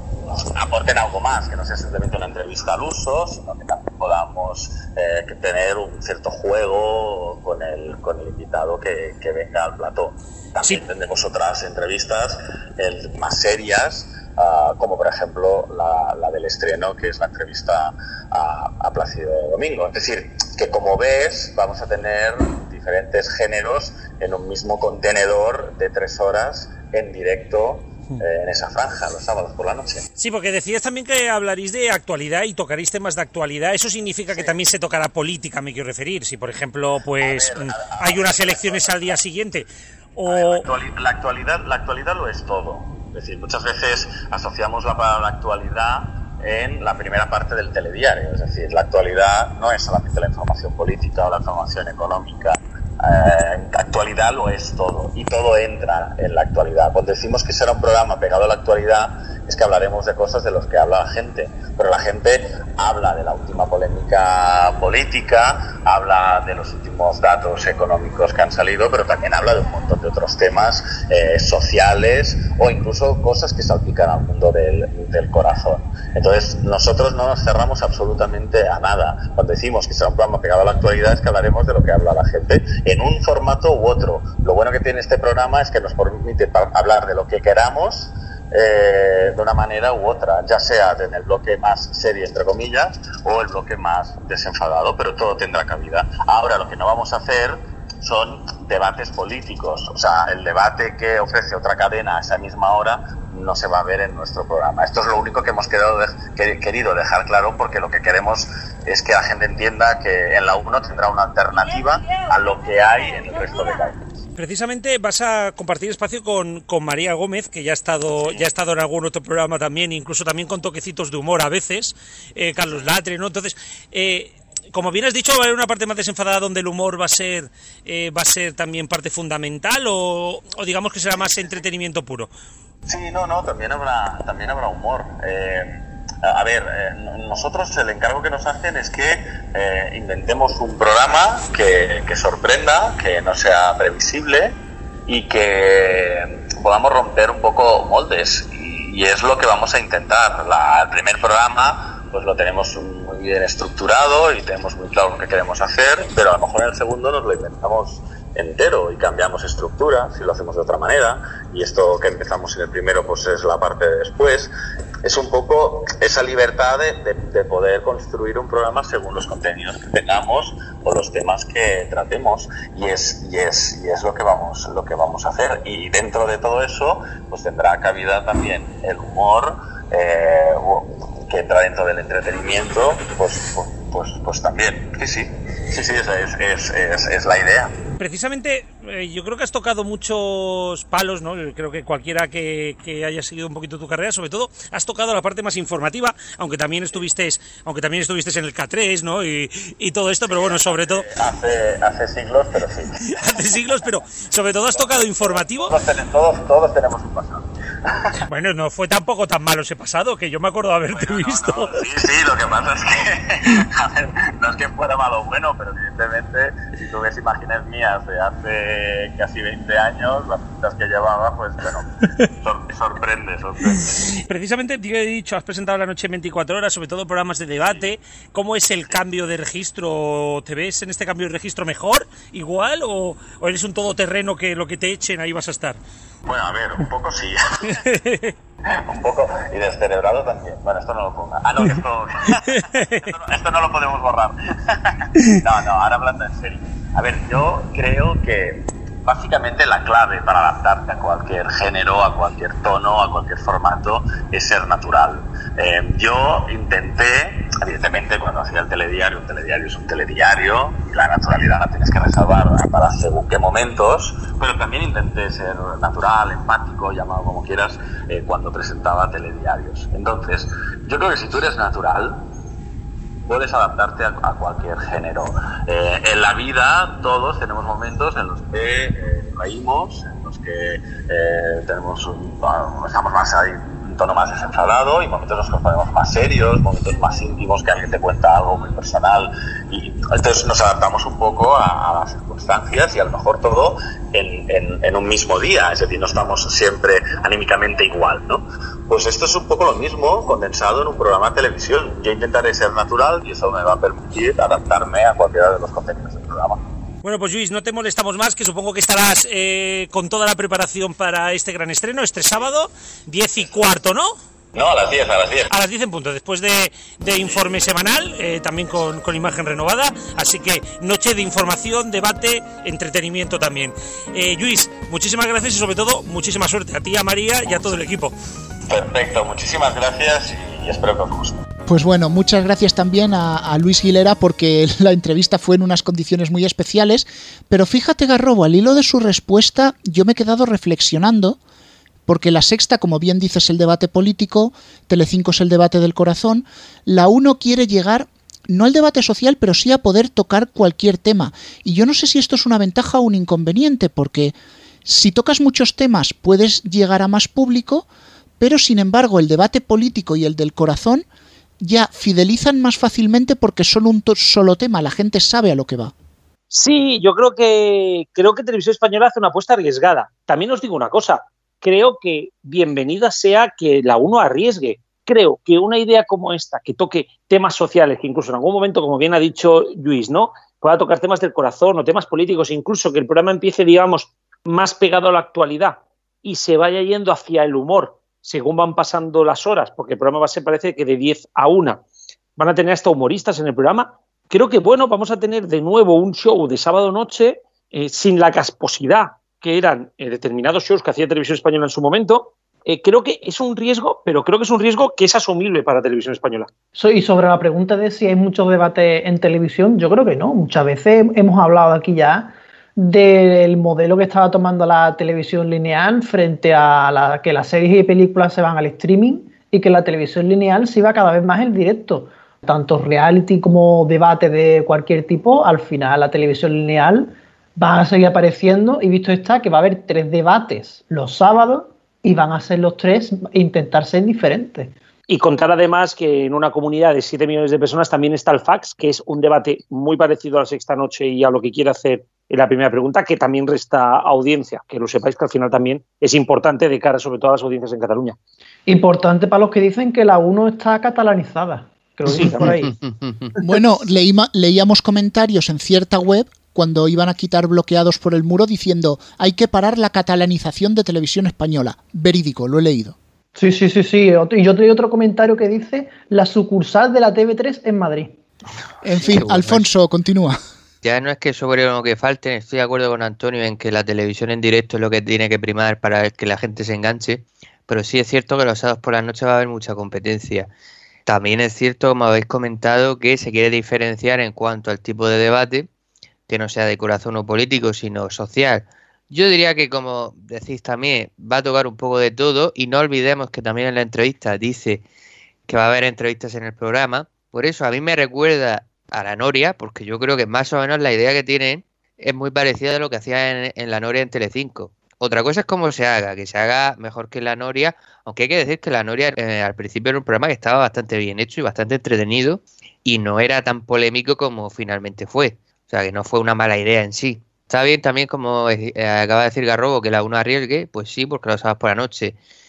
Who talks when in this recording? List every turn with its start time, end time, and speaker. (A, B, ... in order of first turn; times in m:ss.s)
0:00.3-0:30.1 A
0:30.2-0:40.7 B
0:37.2-0:39.1 A
0:40.3-1:54.1 A
1:54.4-2:12.3 B
2:12.9-2:24.6 A
2:25.1-2:44.5 A
2:45.0-3:07.7 A
3:08.0-3:21.0 B
3:20.3-3:23.0 A
3:23.1-3:25.7 B
3:24.8-3:28.1 A
3:28.3-3:31.8 B
3:30.9-3:41.9 A
3:42.4-3:44.0 A
3:44.3-3:55.8 B
3:56.3-3:57.7 A
3:57.9-3:58.3 B
3:58.7-4:04.8 A
4:02.6-4:03.1 B
4:05.3-4:32.2 A
4:33.3-5:06.6 A
5:07.0-5:14.2 B
5:14.6-5:15.5 A
5:15.5-5:28.2 B
5:28.7-5:31.4 A
5:31.7-5:41.4 C
5:42.1-5:57.9 C
5:58.4-6:01.1 C
6:01.6-6:05.9 C
6:06.5-6:31.8 D
6:32.4-6:46.5 D
6:46.8-7:14.7 E
7:15.1-7:28.2 D
7:28.7-7:32.7 E
7:32.1-7:32.5 D
7:32.7-7:33.3 F
7:33.4-7:43.0 C
7:43.4-7:48.2 E
7:48.8-7:50.4 C
7:49.1-7:49.6 F
7:50.8-8:00.5 F
8:01.1-8:05.7 F
8:06.3-8:14.8 F
8:15.5-8:42.2 F